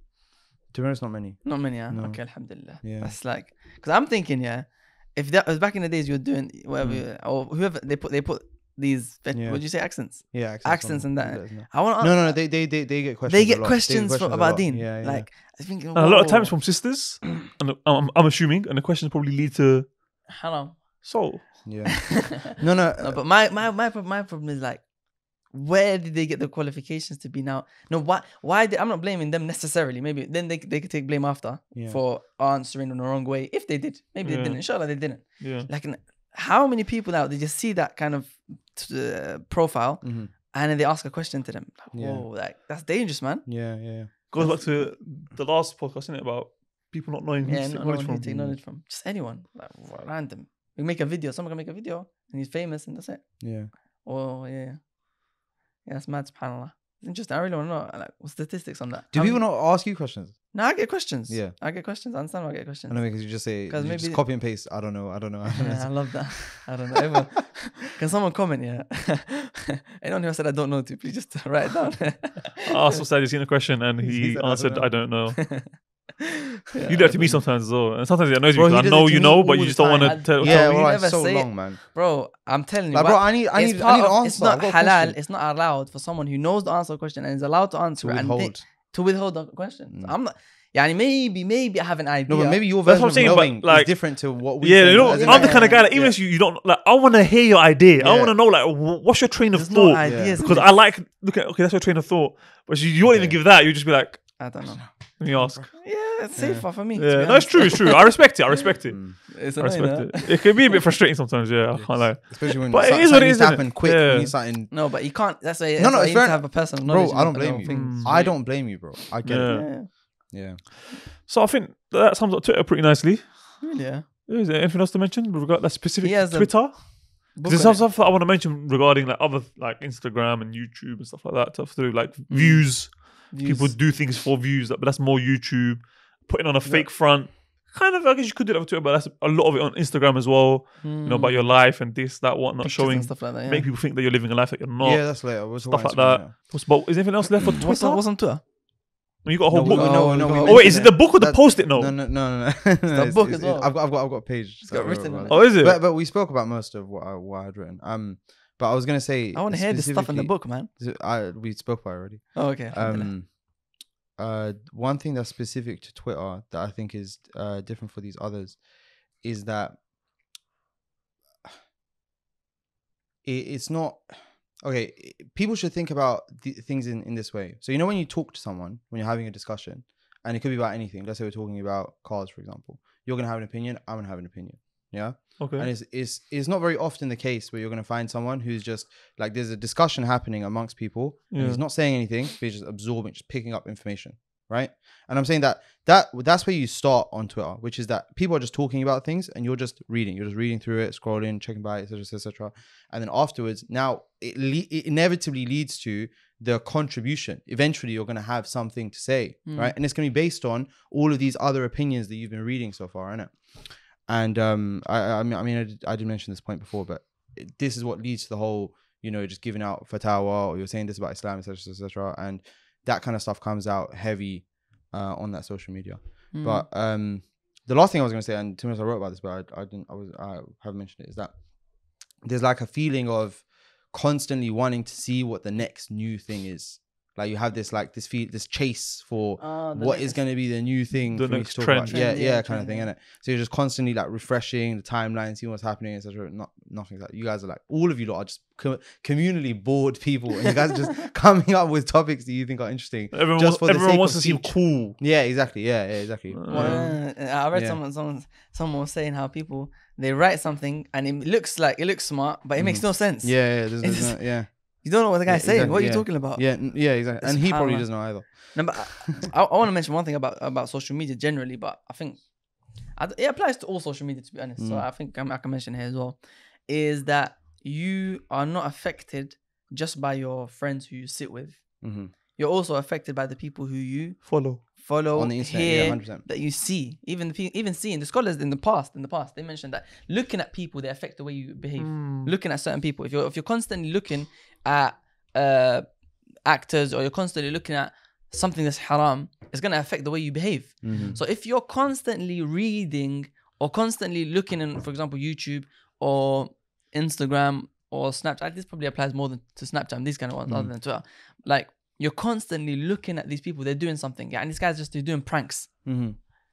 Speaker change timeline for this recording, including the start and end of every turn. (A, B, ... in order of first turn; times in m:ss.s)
0:00.7-0:03.2 A
0:01.4-0:16.7 B
0:06.8-0:07.0 A
0:09.3-0:15.3 A
0:15.9-0:20.2 C
0:20.3-0:21.4 B
0:21.0-0:21.9 C
0:21.6-0:23.2 A
0:23.0-0:45.0 B
0:31.7-0:32.0 A
0:34.2-0:35.7 C
0:40.0-0:40.3 A
0:41.9-0:42.3 A
0:43.5-0:44.1 A
0:44.3-0:48.3 C
0:47.4-0:59.5 B
0:48.2-0:48.6 A
0:53.4-0:53.7 A
0:59.1-1:00.6 A
1:00.5-1:04.2 B
1:01.3-1:01.6 A
1:02.9-1:06.7 A
1:05.6-1:12.7 B
1:12.6-1:15.9 C
1:14.0-1:15.0 A
1:15.4-1:15.9 B
1:16.7-1:17.4 B
1:16.9-1:20.9 C
1:18.5-1:21.8 A
1:19.4-1:33.4 B
1:22.9-1:25.2 A
1:28.0-1:28.6 A
1:29.9-1:30.2 A
1:32.3-1:36.2 A
1:32.8-1:44.6 C
1:35.0-1:36.1 B
1:38.0-1:38.4 A
1:39.5-1:40.7 B
1:40.0-1:40.4 A
1:43.0-1:43.4 A
1:44.4-1:48.4 B
1:44.8-1:45.8 A
1:45.2-1:45.8 C
1:46.3-1:46.7 A
1:47.0-1:54.3 C
1:48.9-1:49.2 A
1:49.3-1:50.8 B
1:51.7-2:00.6 A
1:54.7-1:58.3 B
1:57.7-1:58.7 C
1:59.2-2:00.2 C
1:59.5-2:00.3 B
2:01.1-2:28.5 C
2:03.6-2:04.1 B
2:06.0-2:07.9 B
2:12.3-2:13.8 B
2:16.6-2:16.9 A
2:20.8-2:21.7 B
2:22.6-2:23.7 B
2:24.8-2:26.3 A
2:27.4-2:28.4 B
2:29.2-2:31.9 C
2:29.5-2:49.8 A
2:29.6-2:31.0 B
2:32.9-2:35.6 B
2:35.3-2:35.8 C
2:39.3-2:40.7 B
2:42.3-2:43.2 B
2:53.2-4:17.8 A
3:05.4-3:05.7 C
3:11.3-3:11.6 C
3:29.4-3:29.8 B
3:46.3-3:46.7 B
3:59.4-4:00.2 B
4:01.1-4:02.2 C
4:01.9-4:02.9 B
4:13.1-4:15.0 C
4:16.3-4:16.9 C
4:16.5-5:16.0 B
4:22.6-4:29.0 A
4:34.6-4:34.9 A
4:41.8-4:42.1 A
4:44.2-4:44.6 C
4:45.1-4:46.2 A
4:51.8-4:52.3 C
5:00.8-5:01.2 A
5:10.5-5:10.7 A
5:15.8-5:16.2 A